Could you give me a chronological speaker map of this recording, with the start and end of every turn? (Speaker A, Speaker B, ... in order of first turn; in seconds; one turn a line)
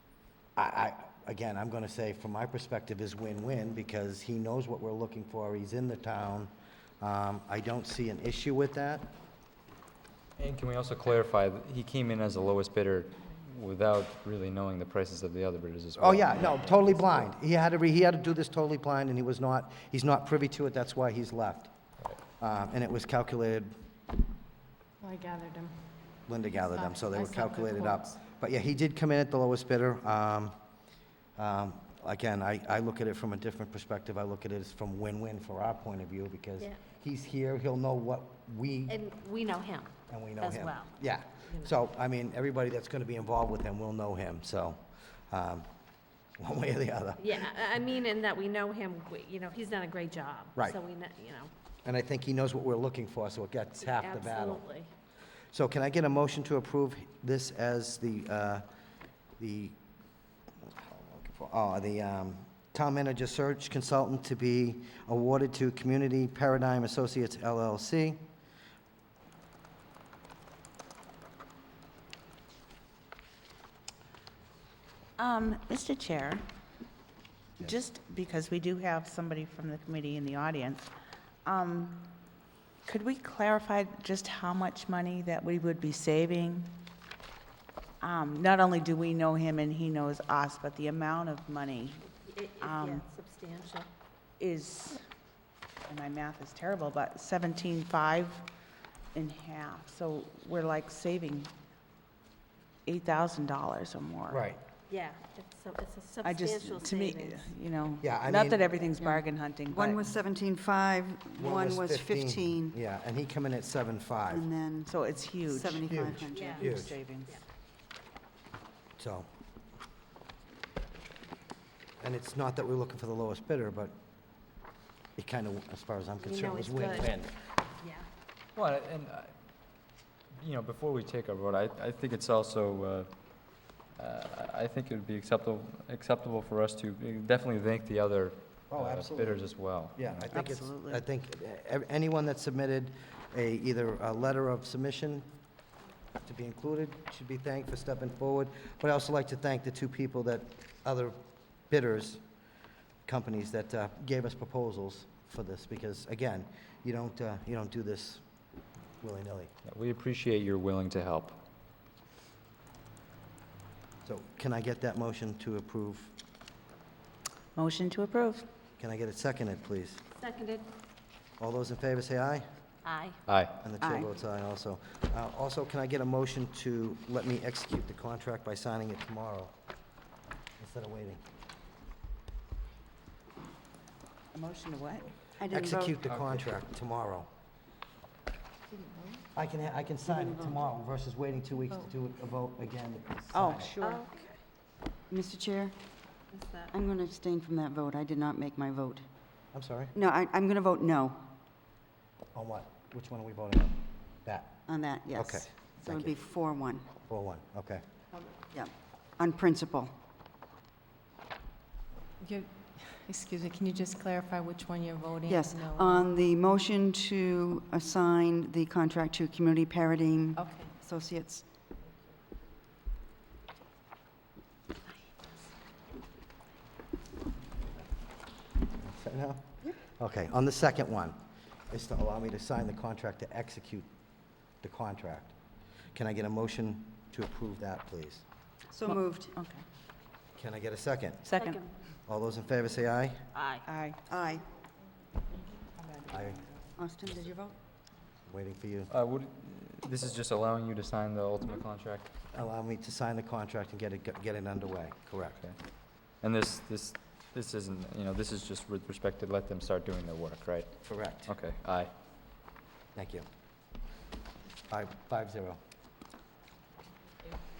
Speaker A: 0.6-9.1
Speaker B: 10.4-17.3
Speaker A: 16.0-21.7
Speaker A: 22.4-23.7
Speaker C: 25.0-25.7
Speaker A: 26.3-30.6
Speaker C: 27.0-28.1
Speaker A: 31.4-39.0
Speaker D: 38.9-41.7
Speaker A: 40.1-45.7
Speaker A: 46.4-47.5
Speaker D: 47.2-51.5
Speaker A: 51.9-54.6
Speaker D: 53.8-54.9
Speaker A: 55.5-58.6
Speaker A: 59.4-59.8
Speaker A: 60.6-68.2
Speaker E: 75.2-76.5
Speaker E: 77.6-80.9
Speaker E: 81.5-82.1
Speaker E: 82.8-86.8
Speaker E: 88.0-92.1
Speaker D: 92.2-93.9
Speaker E: 92.6-93.0
Speaker E: 94.4-95.0
Speaker E: 95.9-98.5
Speaker E: 99.1-101.5
Speaker E: 102.9-104.4
Speaker A: 104.3-104.6
Speaker D: 104.9-107.5
Speaker E: 106.2-110.1
Speaker A: 108.0-108.7
Speaker F: 109.0-112.8
Speaker A: 111.4-114.5
Speaker F: 114.3-114.9
Speaker E: 114.9-117.4
Speaker F: 115.5-116.6
Speaker A: 115.9-116.9
Speaker D: 116.3-116.7
Speaker A: 119.0-119.3
Speaker A: 122.0-124.0
Speaker A: 125.2-127.3
Speaker D: 126.2-127.1
Speaker D: 127.8-128.1
Speaker B: 128.6-129.3
Speaker B: 130.4-133.1
Speaker B: 134.0-140.3
Speaker A: 138.7-139.4
Speaker A: 140.0-145.3
Speaker E: 140.3-141.0
Speaker A: 146.2-151.2
Speaker A: 151.7-152.2
Speaker A: 153.1-158.2
Speaker A: 159.0-159.5
Speaker B: 159.7-161.4
Speaker A: 164.1-166.1
Speaker E: 167.6-168.4
Speaker A: 168.8-170.0
Speaker D: 170.2-170.7
Speaker A: 171.4-172.5
Speaker D: 172.8-173.2
Speaker B: 173.3-173.6
Speaker A: 173.6-179.5
Speaker E: 173.8-174.1
Speaker A: 180.6-181.2
Speaker E: 184.3-185.1
Speaker F: 185.4-185.9
Speaker A: 185.5-187.3
Speaker A: 189.3-193.7
Speaker F: 190.2-190.6
Speaker E: 193.3-194.1
Speaker D: 193.8-194.3
Speaker F: 195.1-195.8
Speaker D: 196.3-196.7
Speaker F: 196.7-199.0
Speaker A: 199.5-199.9
Speaker F: 199.9-201.3
Speaker A: 202.3-204.6
Speaker F: 204.7-206.9
Speaker A: 205.2-206.2
Speaker A: 207.1-207.8
Speaker F: 208.5-209.9
Speaker C: 212.2-216.0
Speaker F: 215.3-221.4
Speaker C: 220.4-220.7
Speaker A: 228.8-233.9
Speaker A: 234.6-235.3
Speaker A: 235.9-238.2
Speaker F: 238.7-239.3
Speaker E: 238.9-239.6
Speaker A: 240.4-241.4
Speaker E: 241.3-241.6
Speaker D: 241.4-241.7
Speaker A: 242.1-243.3
Speaker D: 243.3-243.7
Speaker E: 243.7-244.0
Speaker F: 244.1-244.4
Speaker A: 246.1-246.4
Speaker F: 246.8-247.5
Speaker A: 248.3-248.9
Speaker B: 248.9-252.1
Speaker A: 252.3-255.4
Speaker B: 256.2-261.9
Speaker A: 260.9-261.3
Speaker A: 263.0-263.3
Speaker A: 264.7-265.6